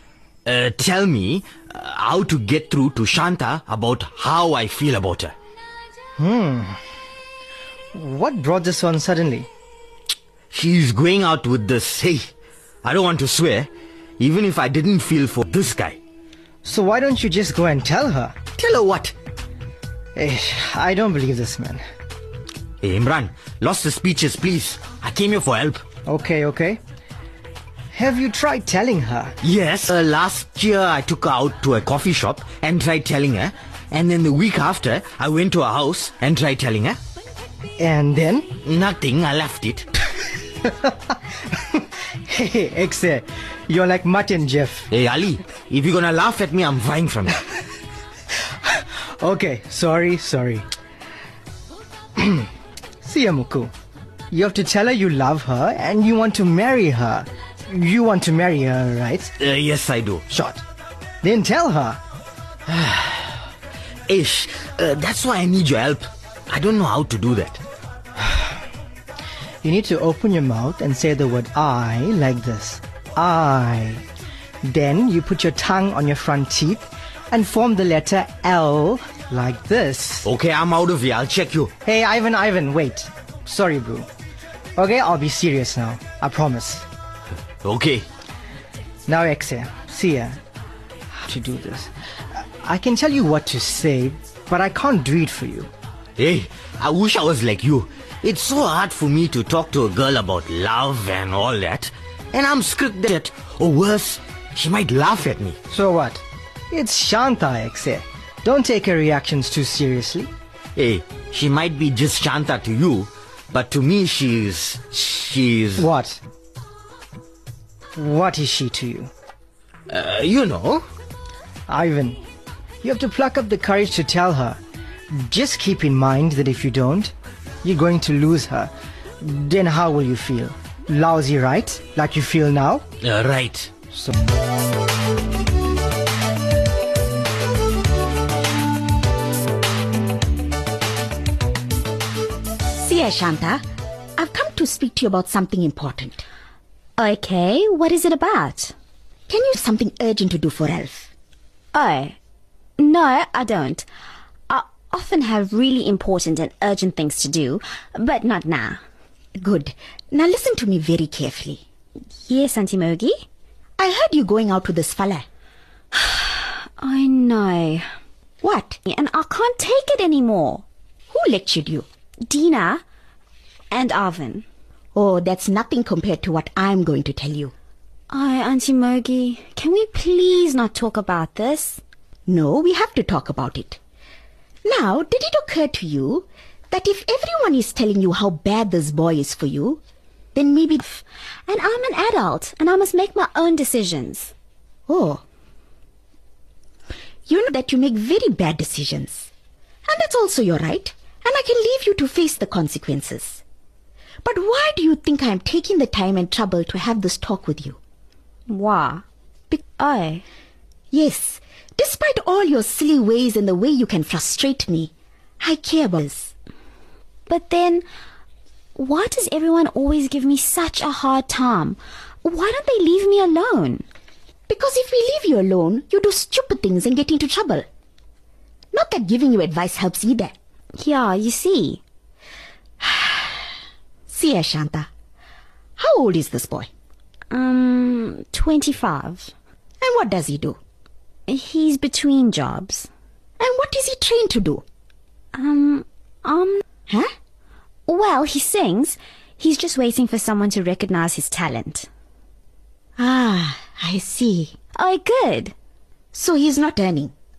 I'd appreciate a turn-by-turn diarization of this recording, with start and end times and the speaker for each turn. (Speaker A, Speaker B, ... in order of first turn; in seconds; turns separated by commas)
Speaker A: 0.5-5.3, Speaker B: 6.2-6.8, Speaker B: 7.9-9.5, Speaker A: 10.5-12.3, Speaker A: 12.8-16.0, Speaker B: 16.6-18.4, Speaker A: 18.6-19.1, Speaker B: 20.1-21.8, Speaker A: 22.8-25.8, Speaker B: 26.1-26.8, Speaker B: 27.9-29.4, Speaker A: 29.4-37.0, Speaker B: 37.8-38.5, Speaker A: 38.6-39.9, Speaker B: 40.6-44.9, Speaker A: 44.9-47.4, Speaker B: 49.2-50.7, Speaker B: 52.2-52.5, Speaker B: 53.0-53.7, Speaker B: 54.3-59.4, Speaker A: 59.4-60.2, Speaker B: 60.3-60.6, Speaker B: 61.2-62.0, Speaker A: 62.7-63.4, Speaker A: 64.1-67.6, Speaker B: 69.6-74.0, Speaker B: 74.6-80.3, Speaker A: 80.2-81.7, Speaker B: 81.8-84.1, Speaker B: 84.8-86.8, Speaker A: 87.6-88.1, Speaker B: 89.1-90.4, Speaker B: 91.1-95.7, Speaker A: 96.2-105.6, Speaker B: 105.7-110.3, Speaker A: 110.8-115.9, Speaker B: 115.8-116.2, Speaker B: 118.0-119.1, Speaker A: 119.9-120.8, Speaker B: 121.7-122.2, Speaker B: 122.8-124.6, Speaker B: 125.1-132.8, Speaker A: 133.0-133.7, Speaker C: 142.8-143.6, Speaker C: 144.2-146.2, Speaker D: 147.0-148.7, Speaker C: 149.3-151.1, Speaker D: 151.7-152.2, Speaker D: 152.8-153.9, Speaker D: 154.5-158.8, Speaker C: 159.4-161.6, Speaker D: 162.3-163.2, Speaker C: 163.8-165.3, Speaker D: 165.9-167.9, Speaker C: 168.4-168.8, Speaker D: 168.8-170.6, Speaker C: 171.1-171.9, Speaker D: 172.3-172.8, Speaker D: 173.7-174.5, Speaker C: 174.9-177.5, Speaker D: 178.1-181.8, Speaker C: 182.3-183.8, Speaker C: 184.6-189.8, Speaker C: 190.3-190.8, Speaker D: 191.0-194.3, Speaker C: 194.9-195.2, Speaker C: 197.3-199.3, Speaker C: 199.8-203.4, Speaker C: 204.2-207.8, Speaker D: 208.5-209.0, Speaker D: 209.7-210.2, Speaker C: 210.9-216.3, Speaker D: 217.3-217.8, Speaker D: 218.8-223.8, Speaker C: 224.5-227.7, Speaker C: 228.7-230.3, Speaker D: 230.8-231.8, Speaker C: 232.8-233.2, Speaker C: 234.1-234.9, Speaker C: 235.8-236.7, Speaker D: 237.3-239.3, Speaker C: 239.8-240.6, Speaker D: 241.3-242.9, Speaker C: 243.4-244.6, Speaker D: 245.3-246.6, Speaker D: 247.9-251.9, Speaker C: 253.0-254.5, Speaker D: 254.8-255.5, Speaker C: 256.1-257.1